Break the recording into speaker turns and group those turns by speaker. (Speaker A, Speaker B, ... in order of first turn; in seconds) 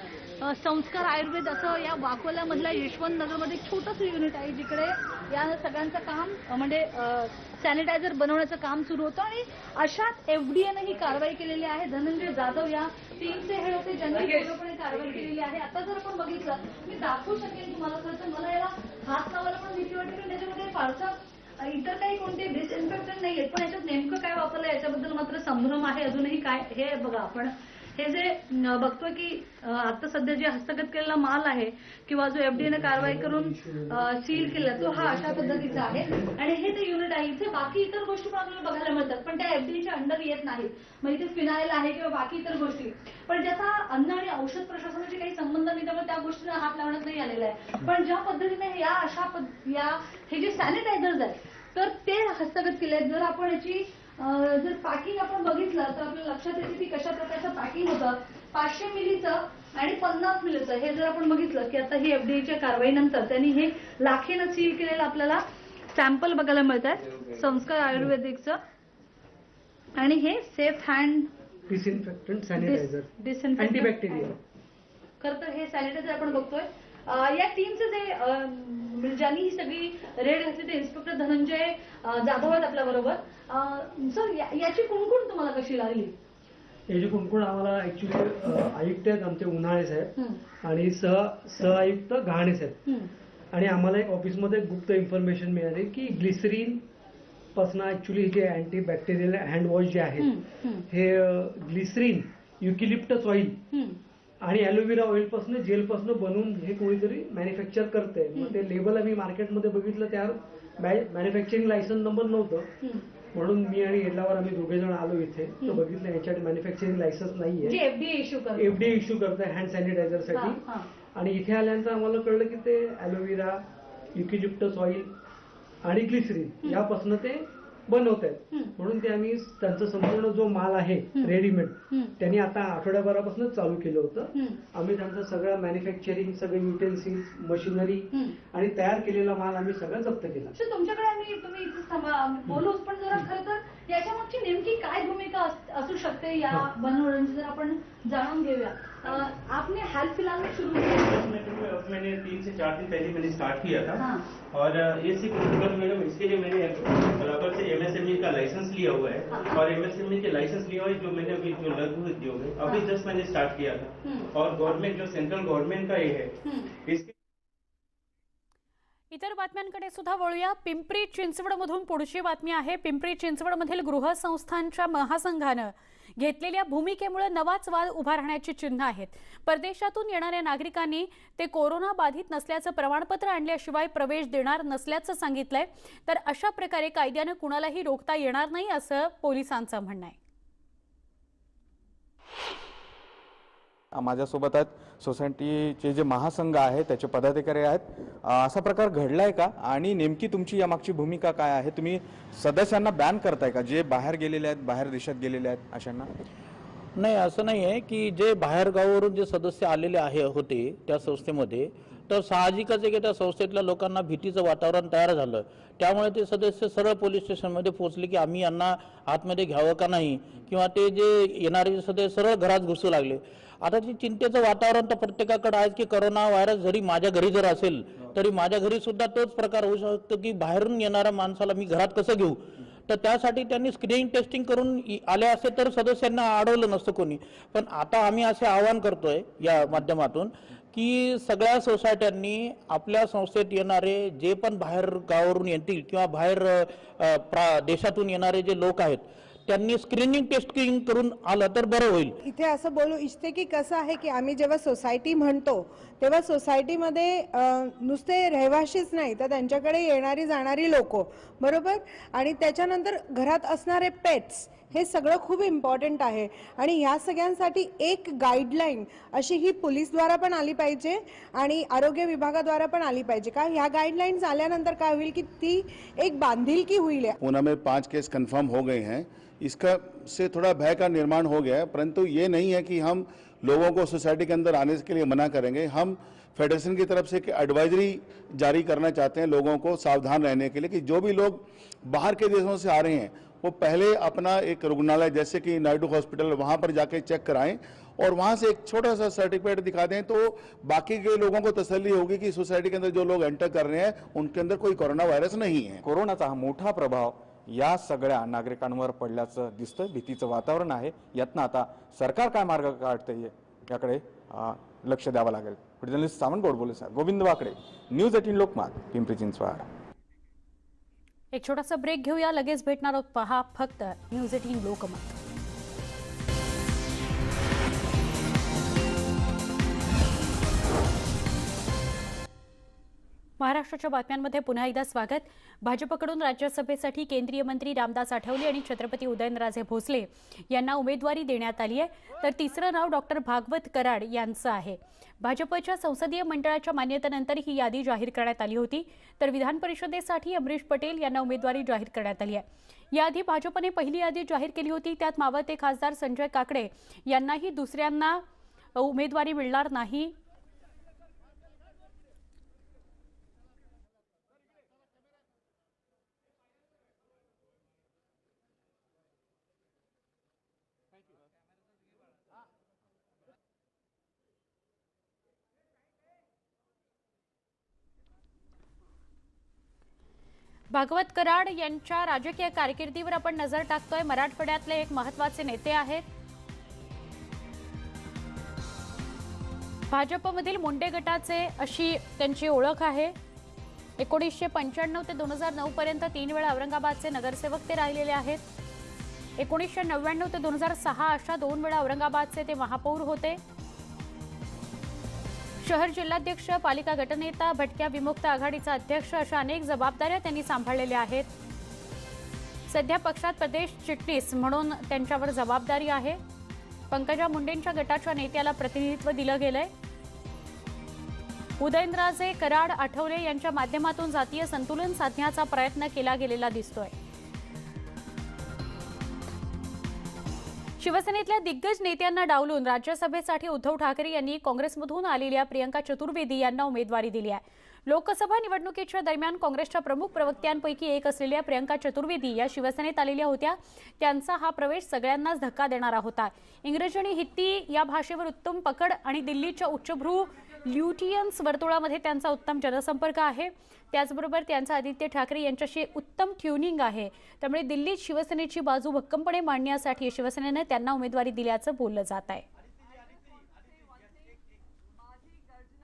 Speaker A: 0.4-68.6, 70.0-71.3, 72.5-74.3, 75.2-86.1, 100.2-100.8, 103.7-104.0, 117.6-118.8, 120.3-120.8, 140.6-151.1
Speaker B: 32.5-36.3, 71.7-74.3, 86.9-90.1, 90.6-92.8, 93.5-96.8, 97.5-100.4, 100.9-103.6, 104.4-112.7, 113.3-117.8, 118.5-120.6, 121.1-123.6, 124.1-125.1, 125.8-140.5
Speaker C: 151.0-167.1
Speaker D: 169.1-190.2, 321.3-325.2, 333.4-358.2, 358.7-360.1, 380.7-386.1, 389.9-393.1, 394.0-398.4, 399.4-403.4, 405.6-411.3, 412.7-416.2, 416.9-419.7, 421.6-426.9, 430.8-462.4
Speaker E: 193.9-206.1, 305.8-319.6
Speaker F: 206.9-252.2
Speaker G: 252.2-277.1
Speaker H: 277.2-305.8